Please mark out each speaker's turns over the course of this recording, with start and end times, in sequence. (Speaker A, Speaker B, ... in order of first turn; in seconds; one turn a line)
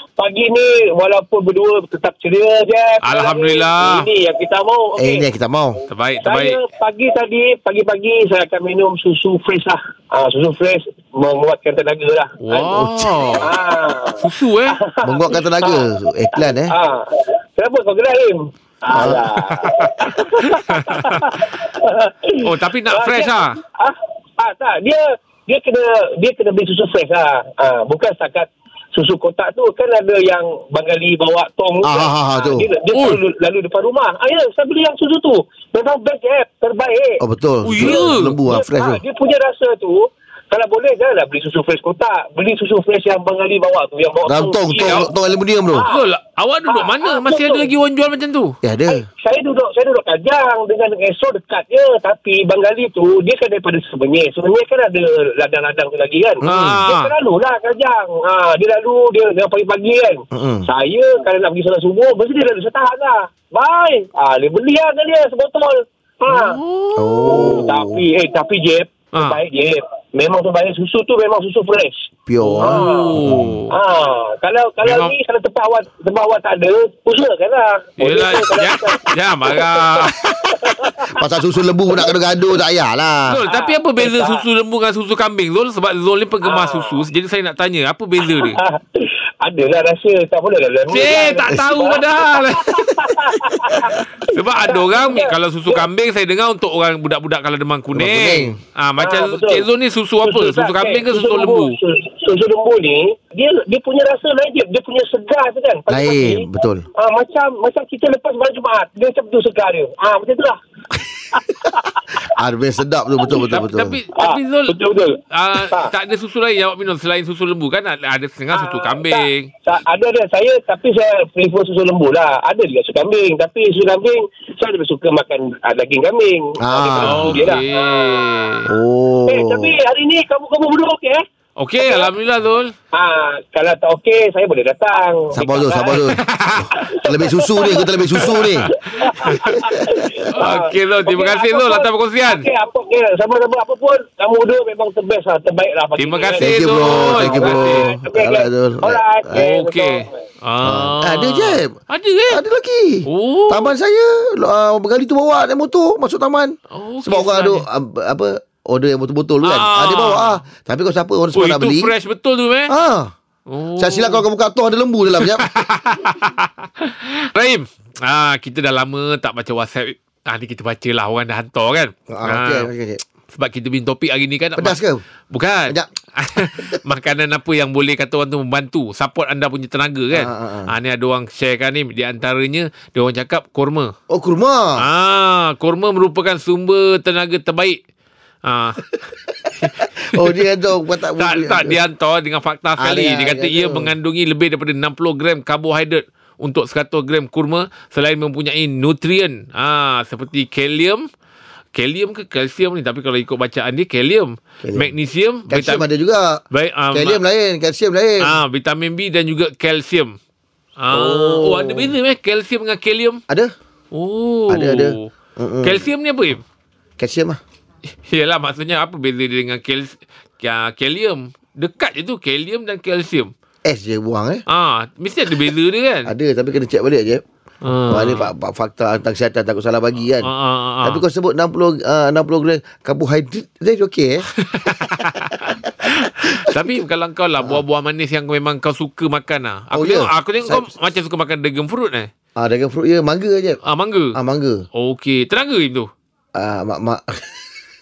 Speaker A: 0.2-5.2
Speaker B: 3.0-4.1
Speaker C: 5.0-5.8
Speaker B: 5.9-6.6
Speaker A: 6.2-12.8
Speaker B: 12.4-13.5
Speaker C: 12.8-13.2
Speaker A: 13.3-15.9
Speaker B: 14.2-14.8
Speaker C: 15.0-16.7
Speaker A: 16.7-37.2
Speaker C: 18.9-19.2
Speaker B: 19.6-20.0
Speaker B: 20.7-21.3
Speaker B: 22.4-23.6
Speaker C: 31.8-32.7
Speaker B: 32.9-33.2
Speaker C: 37.2-39.0
Speaker B: 37.6-38.4
Speaker A: 37.7-45.1
Speaker C: 44.3-45.9
Speaker A: 45.7-46.1
Speaker B: 45.9-48.5
Speaker A: 46.7-47.7
Speaker C: 48.6-49.0
Speaker A: 48.9-66.6
Speaker C: 56.4-56.8
Speaker B: 56.5-57.1
Speaker C: 60.3-60.7
Speaker B: 66.3-67.6
Speaker C: 67.0-68.0
Speaker A: 67.3-72.1
Speaker B: 69.1-69.4
Speaker C: 72.3-73.6
Speaker B: 72.4-73.8
Speaker A: 72.6-73.2
Speaker A: 73.7-81.0
Speaker B: 74.8-75.2
Speaker B: 78.0-80.9
Speaker C: 81.1-83.4
Speaker B: 83.3-88.6
Speaker A: 83.5-84.4
Speaker A: 86.4-87.0
Speaker A: 88.2-95.8
Speaker B: 90.9-93.1
Speaker B: 94.3-101.8
Speaker C: 97.9-98.6
Speaker A: 99.0-99.7
Speaker A: 100.2-110.6
Speaker C: 105.9-106.9
Speaker A: 111.3-112.0
Speaker C: 112.3-114.0
Speaker B: 113.5-114.8
Speaker A: 114.2-115.9
Speaker B: 115.3-119.5
Speaker A: 118.5-128.6
Speaker C: 126.6-127.5
Speaker B: 127.0-128.7
Speaker C: 128.7-129.8
Speaker A: 129.3-131.2
Speaker B: 131.6-132.7
Speaker A: 131.8-132.1
Speaker A: 132.9-136.2
Speaker C: 135.3-138.7
Speaker B: 136.0-137.0
Speaker A: 136.7-150.1
Speaker B: 138.2-139.6
Speaker C: 139.5-140.3
Speaker B: 140.3-142.5
Speaker B: 146.0-147.9
Speaker C: 146.4-149.4
Speaker B: 149.3-152.4
Speaker C: 150.6-151.7
Speaker C: 152.3-161.9
Speaker B: 153.1-153.7
Speaker B: 156.7-157.7
Speaker B: 159.4-160.4
Speaker B: 161.3-162.7
Speaker C: 162.7-163.1
Speaker B: 163.5-164.2
Speaker C: 163.8-165.5
Speaker B: 165.2-172.7
Speaker C: 172.1-173.0
Speaker B: 173.3-174.8
Speaker C: 174.6-175.0
Speaker B: 175.3-183.9
Speaker C: 180.1-180.7
Speaker C: 184.1-184.8
Speaker B: 184.8-187.8
Speaker B: 188.4-189.0
Speaker B: 189.6-190.4
Speaker C: 190.1-191.8
Speaker B: 191.2-201.1
Speaker C: 192.8-193.9
Speaker B: 201.7-205.8
Speaker C: 204.6-204.9
Speaker C: 205.5-208.3
Speaker B: 206.5-207.2
Speaker B: 208.2-210.2
Speaker B: 210.8-213.2
Speaker C: 210.9-211.9
Speaker C: 213.3-213.5
Speaker B: 213.9-215.1
Speaker C: 214.5-215.9
Speaker B: 215.6-216.4
Speaker C: 217.0-217.4
Speaker B: 218.1-223.3
Speaker C: 223.7-224.4
Speaker B: 224.5-226.1
Speaker C: 226.1-227.2
Speaker B: 227.6-228.3
Speaker C: 227.9-230.3
Speaker B: 230.2-231.0
Speaker C: 230.8-236.5
Speaker B: 234.4-242.1
Speaker C: 239.7-240.7
Speaker C: 242.4-243.6
Speaker B: 243.7-244.2
Speaker C: 244.1-244.6
Speaker B: 244.8-245.9
Speaker C: 246.4-247.3